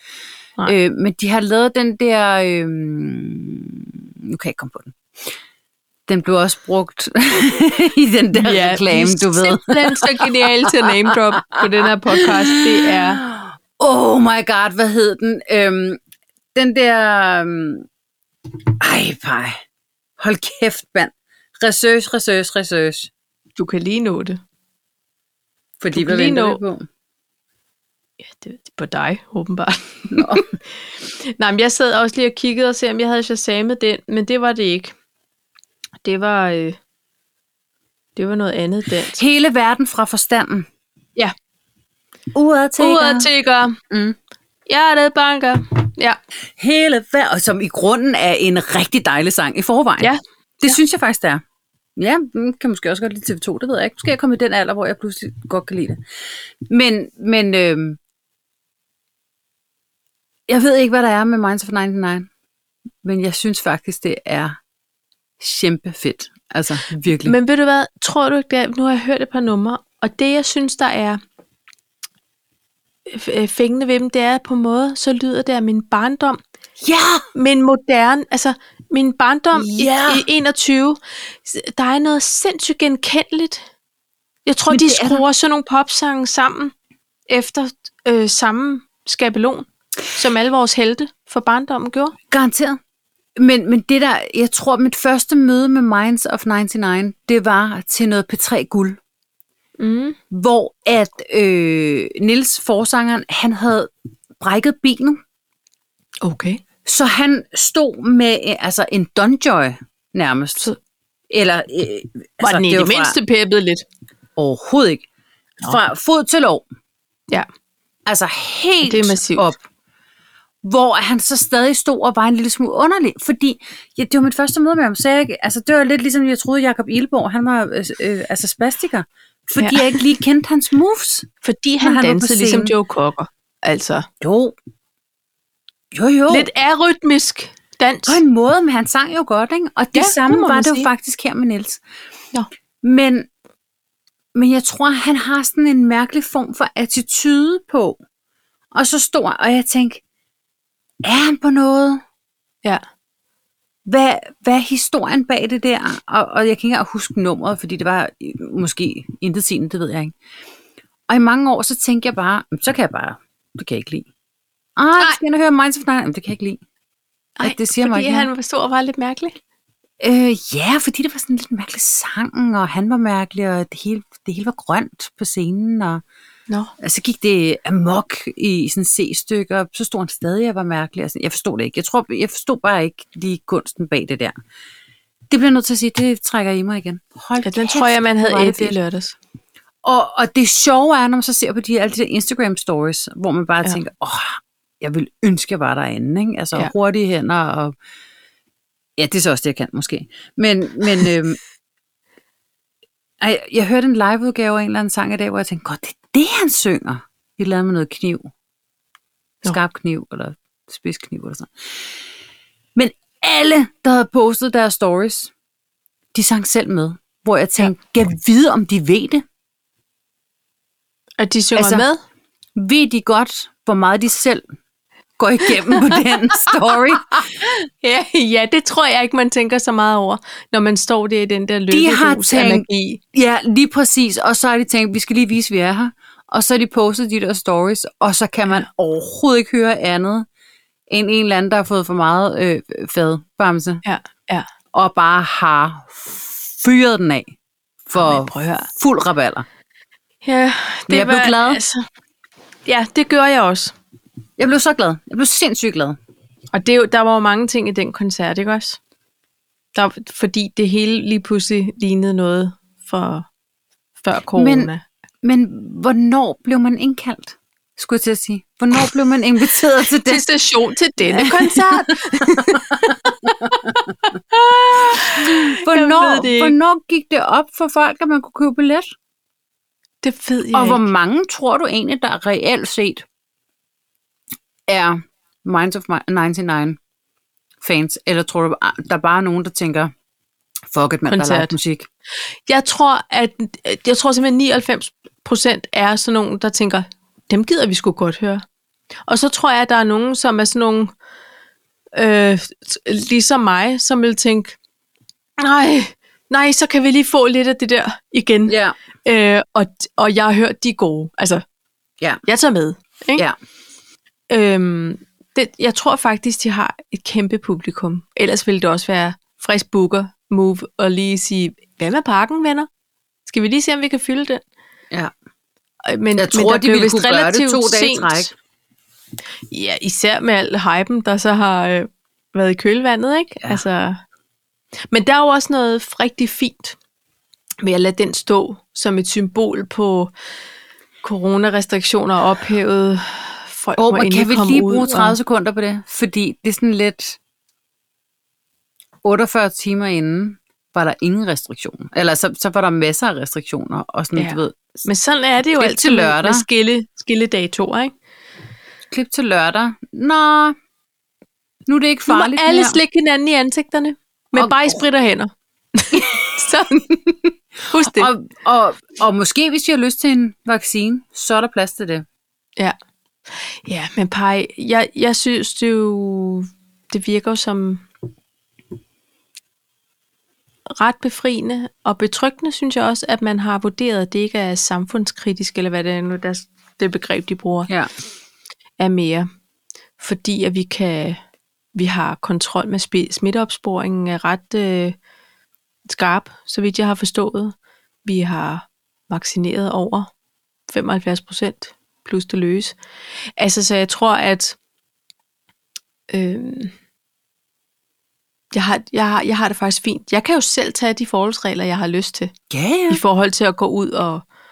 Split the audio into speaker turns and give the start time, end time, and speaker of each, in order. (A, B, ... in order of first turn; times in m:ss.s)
0:00.6-0:05.0 A
0:06.1-0:10.9 A
0:08.3-0:13.2 B
0:12.2-0:16.0 A
0:16.5-0:17.9 A
0:18.5-0:19.6 A
0:20.2-0:23.1 A
0:23.6-0:24.4 B
0:25.8-0:26.9 A
0:25.9-0:26.6 B
0:28.3-0:34.9 B
0:30.1-0:30.5 A
0:36.0-0:36.8 B
0:38.2-0:39.2 B
0:39.1-0:40.7 A
0:42.3-0:43.3 A
0:42.8-0:43.8 B
0:43.9-0:44.2 A
0:44.7-0:46.2 B
0:46.6-0:51.4 A
0:50.0-0:50.8 B
0:52.0-0:56.0 A
0:56.7-0:58.0 A
1:00.5-1:02.3 A
1:03.0-1:04.6 A
1:05.4-1:07.4 A
1:07.2-1:11.2 B
1:13.1-1:16.4 B
1:16.8-1:17.2 A
1:17.3-1:23.6 B
1:19.5-1:20.2 A
1:24.4-1:26.7 B
1:24.7-1:25.2 A
1:27.3-1:32.2 B
1:32.3-1:32.8 A
1:33.4-1:39.0 A
1:39.8-1:40.2 B
1:40.3-1:45.2 A
1:46.2-1:46.6 B
1:46.8-1:50.7 A
1:51.3-1:53.2 A
1:52.4-1:53.8 B
1:54.4-1:55.0 A
1:55.6-1:56.6 A
1:58.0-1:59.6 A
1:58.8-1:59.5 B
2:00.6-2:11.3 A
2:09.6-2:10.0 B
2:11.4-2:14.1 B
2:11.8-2:12.7 A
2:14.2-2:14.5 A
2:15.9-2:16.5 A
2:16.3-2:18.2 B
2:18.1-2:21.8 A
2:19.9-2:20.9 B
2:22.8-2:23.3 A
2:24.3-2:28.0 A
2:28.7-2:30.0 A
2:31.0-2:32.0 A
2:33.8-2:40.1 A
2:41.1-2:44.1 A
2:44.8-2:46.6 A
2:47.4-2:49.4 B
2:47.4-2:48.3 A
2:50.0-2:56.0 A
2:56.8-3:04.3 A
3:05.3-3:08.7 A
3:07.4-3:09.2 B
3:09.8-3:17.7 A
3:19.0-3:21.4 A
3:23.2-3:28.3 A
3:29.4-3:31.9 A
3:32.8-3:35.3 A
3:36.1-3:39.2 A
3:41.2-3:42.0 B
3:41.6-3:41.9 A
3:42.6-3:44.4 A
3:45.2-3:47.3 A
3:45.5-3:46.8 B
3:47.4-3:53.0 B
3:51.7-4:00.2 A
4:00.9-4:03.8 A
4:03.8-4:04.5 B
4:04.7-4:07.3 A
4:07.9-4:09.4 A
4:08.0-4:08.7 B
4:10.2-4:11.8 B
4:10.9-4:11.6 A
4:12.6-4:13.7 B
4:14.4-4:16.0 A
4:16.5-4:18.8 B
4:19.7-4:23.3 B
4:24.0-4:24.8 B
4:24.4-4:24.7 A
4:25.2-4:30.3 A
4:30.0-4:36.5 B
4:31.0-4:33.7 A
4:34.8-4:38.9 A
4:40.0-4:40.9 B
4:40.5-4:43.0 A
4:44.7-4:46.8 A
4:47.6-4:49.9 A
4:50.7-4:51.9 A
4:51.0-4:51.5 B
4:52.5-4:58.4 B
4:59.1-5:00.9 B
5:01.9-5:04.6 B
5:05.4-5:11.4 B
5:08.5-5:08.8 A
5:12.3-5:13.2 B
5:14.3-5:22.7 B
5:23.2-5:24.4 B
5:25.9-5:28.3 B
5:26.2-5:28.3 A
5:29.5-5:34.0 B
5:34.9-5:36.8 B
5:37.6-5:40.1 B
5:41.0-5:45.2 B
5:43.8-5:47.2 A
5:49.0-5:54.8 A
5:54.2-5:57.9 B
5:55.6-5:56.4 A
5:58.9-6:00.6 A
6:01.6-6:02.8 A
6:02.1-6:08.1 B
6:04.4-6:04.7 A
6:07.8-6:12.0 A
6:13.6-6:17.9 B
6:20.7-6:27.7 B
6:28.8-6:29.3 B
6:30.0-6:31.2 B
6:31.7-6:35.0 B
6:35.9-6:37.5 B
6:38.0-6:40.1 B
6:40.7-6:42.8 B
6:43.4-6:44.6 B
6:46.1-6:46.7 B
6:48.5-6:52.3 B
6:52.5-6:53.0 A
6:52.9-6:54.2 B